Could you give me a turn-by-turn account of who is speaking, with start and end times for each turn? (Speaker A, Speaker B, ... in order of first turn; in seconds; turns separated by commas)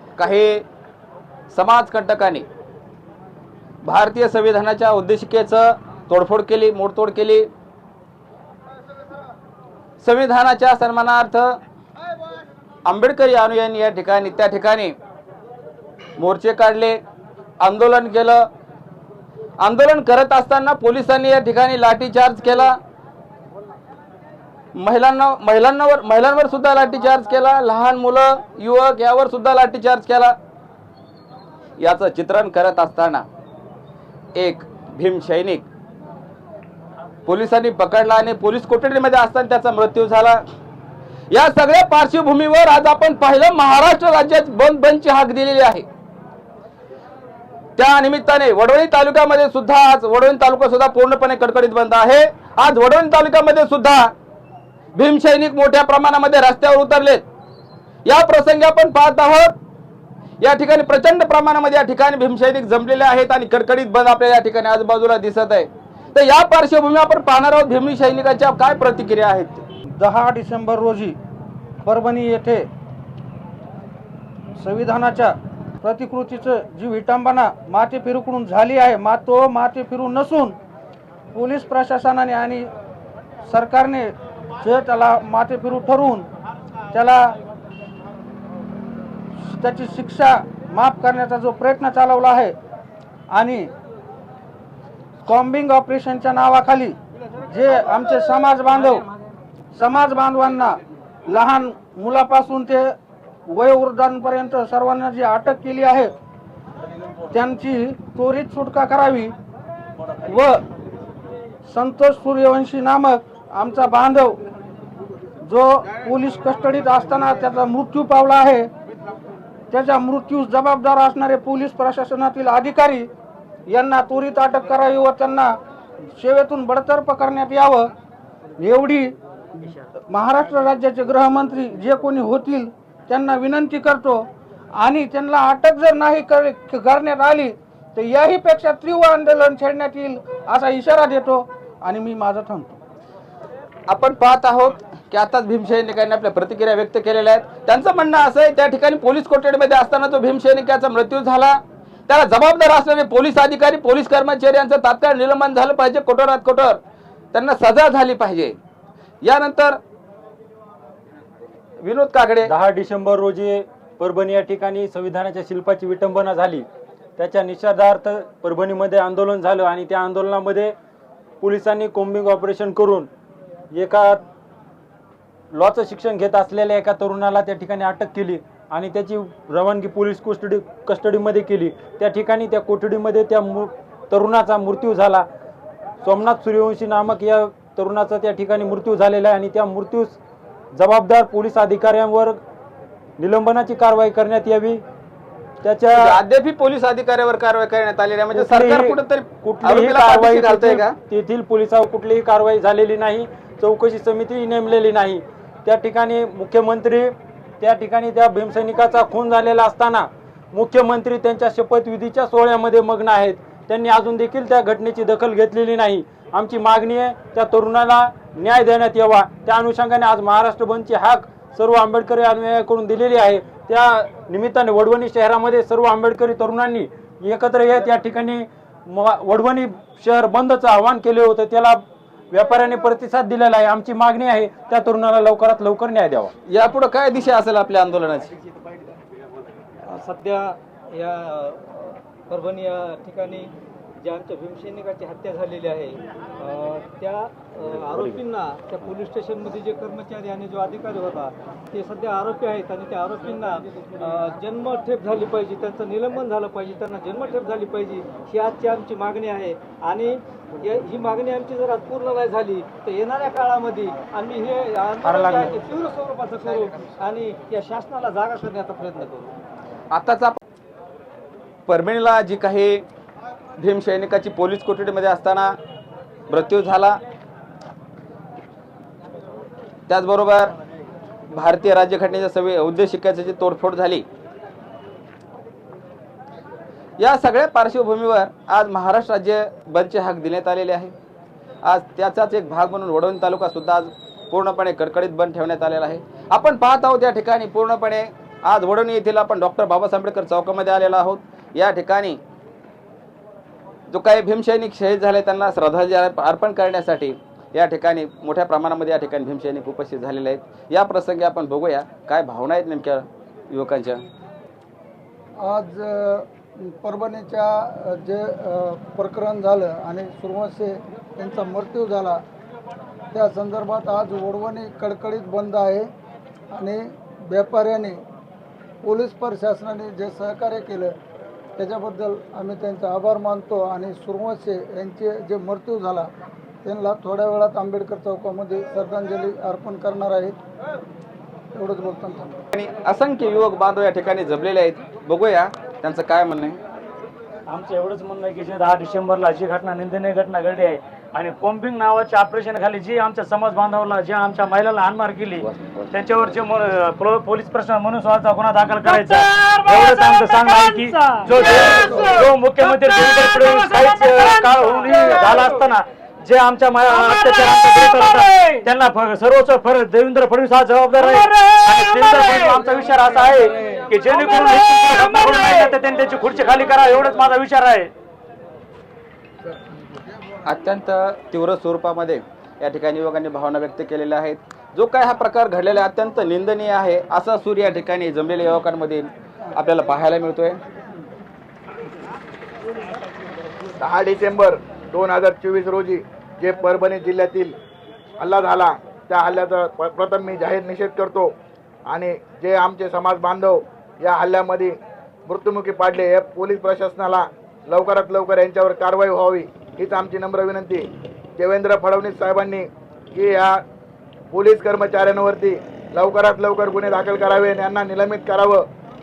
Speaker A: 0.2-0.6, Speaker A: 1.5-2.4, Speaker A: 3.8-7.5, Speaker A: 10.0-11.6, Speaker A: 12.8-14.9, Speaker A: 16.2-17.0, Speaker A: 17.6-18.5, Speaker A: 19.6-22.8, Speaker A: 24.7-30.4, Speaker A: 31.8-33.2, Speaker A: 34.4-35.6, Speaker A: 37.2-40.4, Speaker A: 41.3-45.8, Speaker A: 47.8-54.1, Speaker A: 54.9-57.2, Speaker A: 58.0-59.5, Speaker A: 60.4-69.6, Speaker B: 70.0-71.1, Speaker B: 71.8-72.6, Speaker B: 74.6-75.3, Speaker B: 75.8-80.5, Speaker B: 81.3-82.6, Speaker B: 83.5-84.1, Speaker B: 84.6-86.2, Speaker B: 86.9-87.2, Speaker B: 89.5-92.5, Speaker B: 93.3-93.7, Speaker B: 95.3-96.9, Speaker B: 97.5-99.0, Speaker B: 99.8-100.8, Speaker B: 101.3-102.9, Speaker B: 103.5-106.1, Speaker B: 107.3-109.3, Speaker B: 111.7-114.4, Speaker B: 115.5-118.6, Speaker B: 119.7-123.0, Speaker B: 123.7-125.5, Speaker B: 126.2-127.8, Speaker B: 128.6-129.1, Speaker B: 129.6-134.2, Speaker B: 134.8-142.7, Speaker A: 143.9-156.8, Speaker A: 157.3-158.6, Speaker A: 159.2-159.8, Speaker A: 161.8-162.5, Speaker C: 162.4-166.7, Speaker C: 167.2-170.7, Speaker C: 171.4-173.1, Speaker C: 173.7-174.2, Speaker C: 175.5-185.3, Speaker C: 186.0-190.2, Speaker C: 190.7-192.4, Speaker C: 193.2-194.8, Speaker C: 195.6-196.2, Speaker A: 195.9-200.9, Speaker C: 198.3-236.3, Speaker A: 236.5-238.3, Speaker D: 239.8-243.5, Speaker D: 244.0-269.3, Speaker C: 265.0-265.5, Speaker A: 269.9-270.4, Speaker A: 271.7-272.8, Speaker A: 273.6-275.6, Speaker A: 276.3-277.0, Speaker A: 279.9-280.5, Speaker A: 281.3-284.0, Speaker A: 287.0-290.9, Speaker A: 291.6-302.2, Speaker A: 303.9-314.0, Speaker E: 315.4-322.2, Speaker E: 323.1-325.9, Speaker E: 326.5-328.0, Speaker E: 328.8-330.9, Speaker E: 331.6-336.1, Speaker E: 336.6-340.4, Speaker E: 341.5-342.4, Speaker A: 342.5-346.6, Speaker F: 347.5-377.9, Speaker A: 380.4-390.6, Speaker G: 393.8-397.5, Speaker G: 398.2-401.3, Speaker G: 401.9-413.6, Speaker G: 414.3-418.6